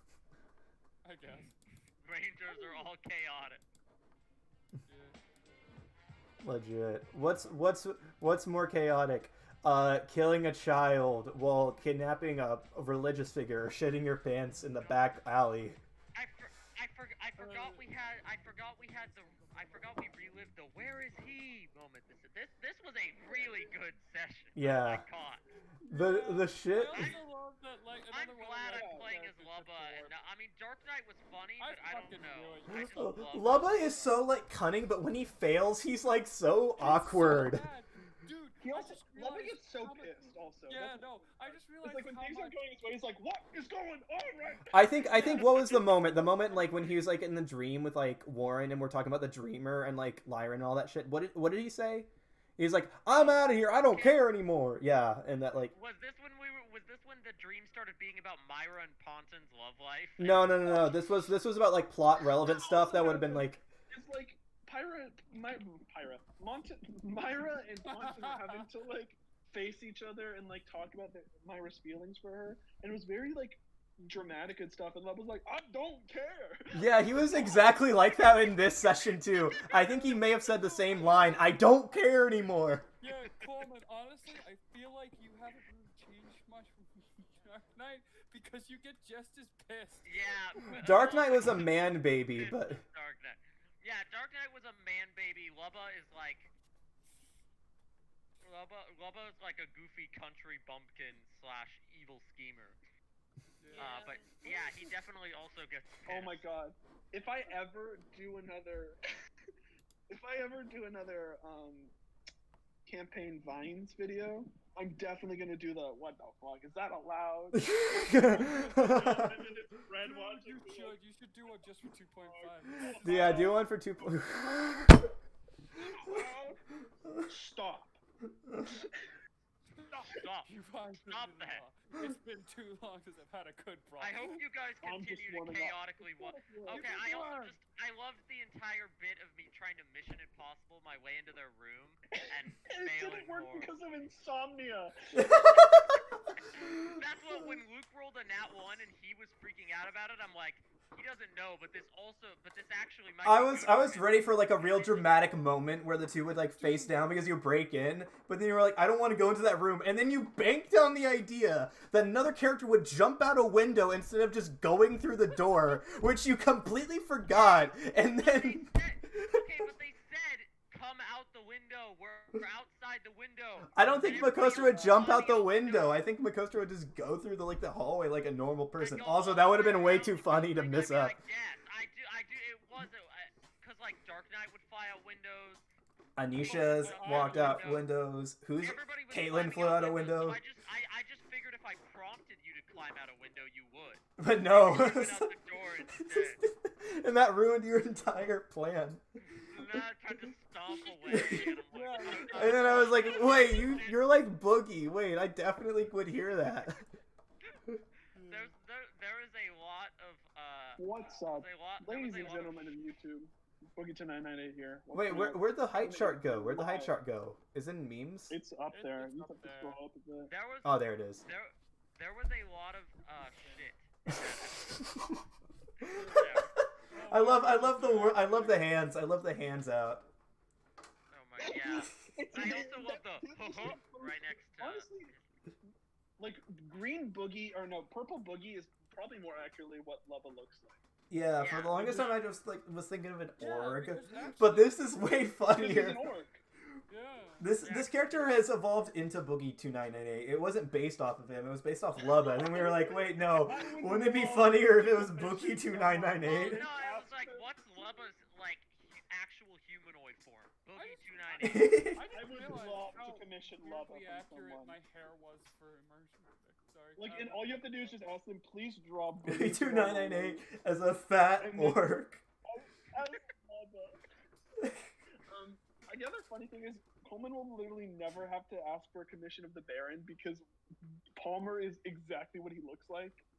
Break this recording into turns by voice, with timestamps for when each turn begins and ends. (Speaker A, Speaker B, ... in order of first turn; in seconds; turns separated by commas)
Speaker A: 1.0-1.5, Speaker B: 2.0-3.6, Speaker A: 4.8-5.2, Speaker C: 6.4-15.8, Speaker B: 14.7-15.2, Speaker B: 16.1-25.4, Speaker A: 17.4-17.9, Speaker D: 23.2-23.7, Speaker C: 24.6-25.1, Speaker A: 25.9-30.1, Speaker C: 25.9-27.1, Speaker B: 26.9-27.2, Speaker B: 28.1-34.0, Speaker D: 28.7-30.0, Speaker A: 31.6-33.9, Speaker C: 32.9-37.7, Speaker A: 36.8-42.6, Speaker D: 38.6-46.1, Speaker C: 44.7-55.7, Speaker A: 45.0-45.8, Speaker B: 46.8-47.0, Speaker B: 53.1-54.2, Speaker B: 55.7-60.6, Speaker C: 60.2-63.6, Speaker D: 60.6-61.3, Speaker D: 62.3-77.8, Speaker A: 67.9-68.7, Speaker C: 76.7-82.9, Speaker A: 79.7-81.3, Speaker A: 83.0-90.3, Speaker B: 90.0-96.5, Speaker C: 90.8-92.8, Speaker B: 98.4-102.8, Speaker A: 103.6-104.4, Speaker B: 103.8-106.5, Speaker D: 106.1-109.0, Speaker D: 110.1-111.9, Speaker D: 112.9-121.0, Speaker C: 117.6-119.3, Speaker A: 118.3-119.3, Speaker A: 120.0-123.0, Speaker D: 122.2-124.2, Speaker C: 123.0-125.1, Speaker D: 125.8-126.6, Speaker D: 127.2-128.0, Speaker D: 128.6-129.1, Speaker A: 129.7-134.4, Speaker B: 130.2-131.6, Speaker B: 134.0-143.8, Speaker D: 134.8-136.8, Speaker A: 136.7-137.5, Speaker D: 142.7-145.4, Speaker C: 145.1-146.0, Speaker B: 146.8-155.3, Speaker C: 153.2-168.6, Speaker A: 156.6-157.0, Speaker B: 167.2-176.0, Speaker C: 173.7-181.1, Speaker B: 178.8-185.6, Speaker C: 186.2-190.4, Speaker B: 186.4-187.9, Speaker A: 186.5-187.8, Speaker B: 188.6-196.4, Speaker C: 194.2-195.3, Speaker C: 196.0-199.0, Speaker B: 199.2-204.0, Speaker C: 201.1-201.5, Speaker A: 201.7-203.9, Speaker C: 202.3-206.8, Speaker A: 208.1-208.5, Speaker B: 208.2-212.8, Speaker D: 210.8-216.9, Speaker C: 214.9-218.3, Speaker D: 218.3-220.3, Speaker A: 218.7-219.8, Speaker B: 220.3-224.9, Speaker C: 220.6-221.2, Speaker A: 223.3-223.6, Speaker B: 225.9-226.5, Speaker A: 226.9-228.7, Speaker C: 227.1-230.0, Speaker B: 231.1-235.3, Speaker D: 231.4-235.1, Speaker D: 236.2-240.8, Speaker C: 241.1-246.0, Speaker B: 241.4-242.1, Speaker A: 241.8-242.1, Speaker A: 243.4-245.3, Speaker D: 245.5-246.4, Speaker A: 246.9-247.5, Speaker C: 247.4-256.6, Speaker B: 247.6-248.0, Speaker D: 252.3-257.9, Speaker A: 255.2-256.5, Speaker B: 256.2-261.8, Speaker A: 260.8-268.1, Speaker C: 261.4-262.0, Speaker D: 262.0-264.8, Speaker D: 266.9-270.5, Speaker C: 269.2-272.2, Speaker D: 271.4-271.9, Speaker D: 272.5-274.0, Speaker D: 275.3-283.2